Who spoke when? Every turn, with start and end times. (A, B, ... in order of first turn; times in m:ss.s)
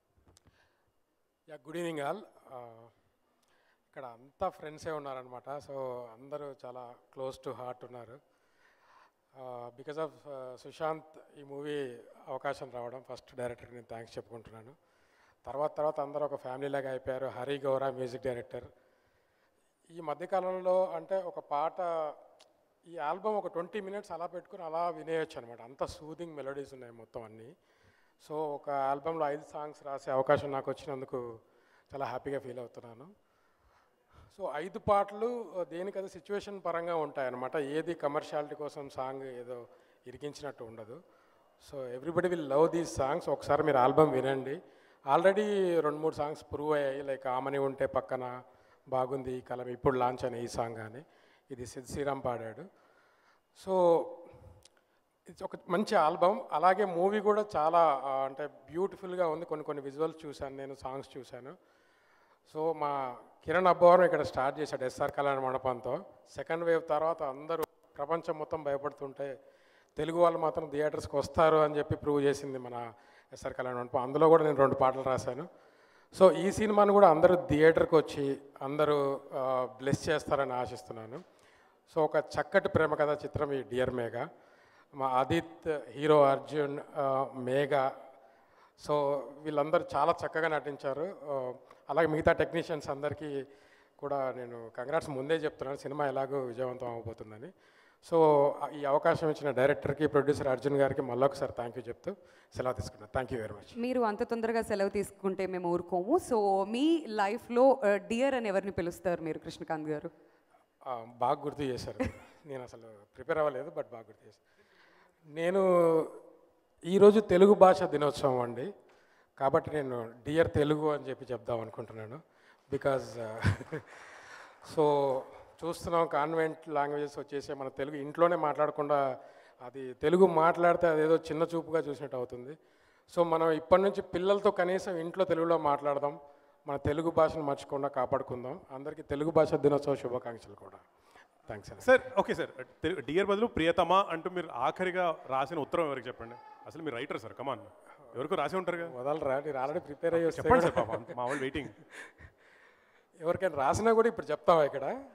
0:01.5-0:02.9 A
0:03.9-0:08.2 A
0:09.4-0:14.7 A
0:15.4-0:18.7 A
0:19.9-0:22.2 A
0:22.9-0:27.5 A
0:28.2-0:31.2 A
0:31.9-0:33.1 A
0:34.3-0:41.0 A
0:41.6-0:44.6 A
0:45.1-0:48.3 A
0:48.9-0:52.6 A
0:53.6-0:54.2 A
0:55.3-1:01.5 A
1:02.5-1:09.3 A
1:10.0-1:15.5 A
1:16.1-1:21.2 A
1:21.9-1:24.2 A
1:25.0-1:27.9 A
1:28.8-1:33.4 A
1:34.0-1:37.5 A
1:38.0-1:43.7 A
1:43.8-1:50.1 B
1:50.8-1:54.4 A
1:55.3-1:56.1 A
1:56.9-1:58.7 A
1:59.4-2:04.0 A
2:04.6-2:09.0 A
2:09.6-2:12.5 A
2:13.1-2:20.8 A
2:21.5-2:21.9 A
2:21.8-2:28.9 C
2:28.8-2:31.1 A
2:30.1-2:31.8 C
2:33.2-2:34.9 A